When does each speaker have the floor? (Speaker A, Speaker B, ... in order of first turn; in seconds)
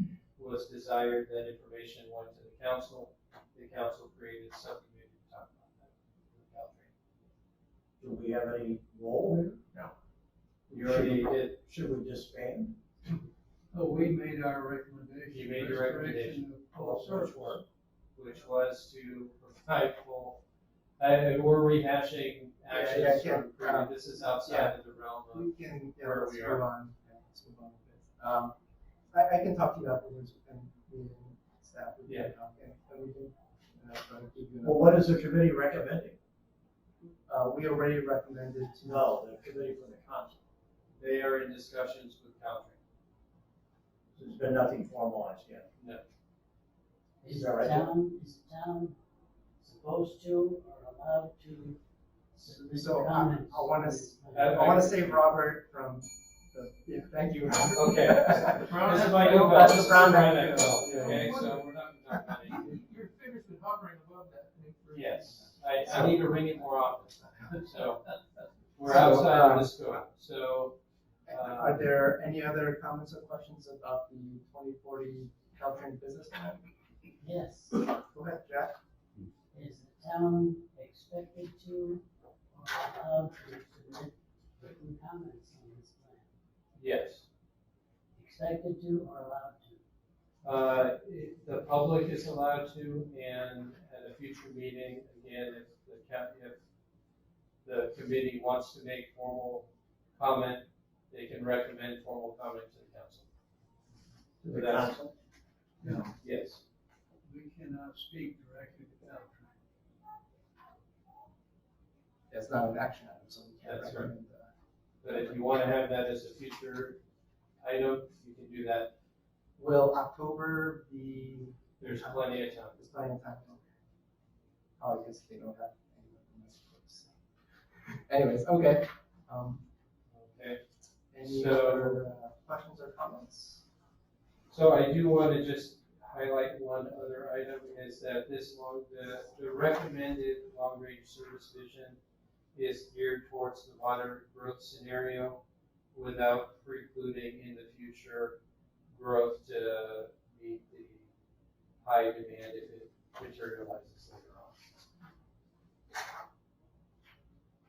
Speaker A: 0.4-6.9, 10.7-11.6, 15.3-16.5, 17.1-17.6, 18.2-20.4, 21.0-26.6, 32.1-32.3, 41.0-42.8, 45.8-46.0, 54.3-55.3, 57.7-62.7, 64.9-68.1, 68.8-70.8, 71.3-71.8, 86.8-87.3, 90.4-96.6, 97.6-103.3, 104.4-105.1, 106.2-106.6, 113.6-114.1, 115.0-117.0, 117.6-118.9, 121.8-122.8, 130.1-130.6, 131.2-132.0, 134.5-142.0, 142.5-145.4, 145.9-148.4, 148.9-151.1, 151.8-154.6
Speaker B: 8.0-9.9, 10.7-12.8, 16.7-17.6, 34.6-36.2, 38.8-40.4, 44.1-45.7, 47.3-47.9, 104.4-105.1
Speaker C: 13.7-17.3, 105.8-106.1, 107.2-109.5
Speaker D: 22.7-28.6, 29.1-35.1, 37.3-39.1, 52.7-61.2, 65.4-67.5, 68.8-69.8, 71.3-76.6, 77.9-78.8, 112.3-114.5, 119.6-123.6, 124.8-127.1, 128.1-129.6, 131.1-133.6
Speaker E: 47.2-49.0, 49.6-51.8, 52.3-54.8, 77.2-77.8, 79.5-82.0, 82.6-86.3, 88.2-89.8
Speaker F: 58.5-65.7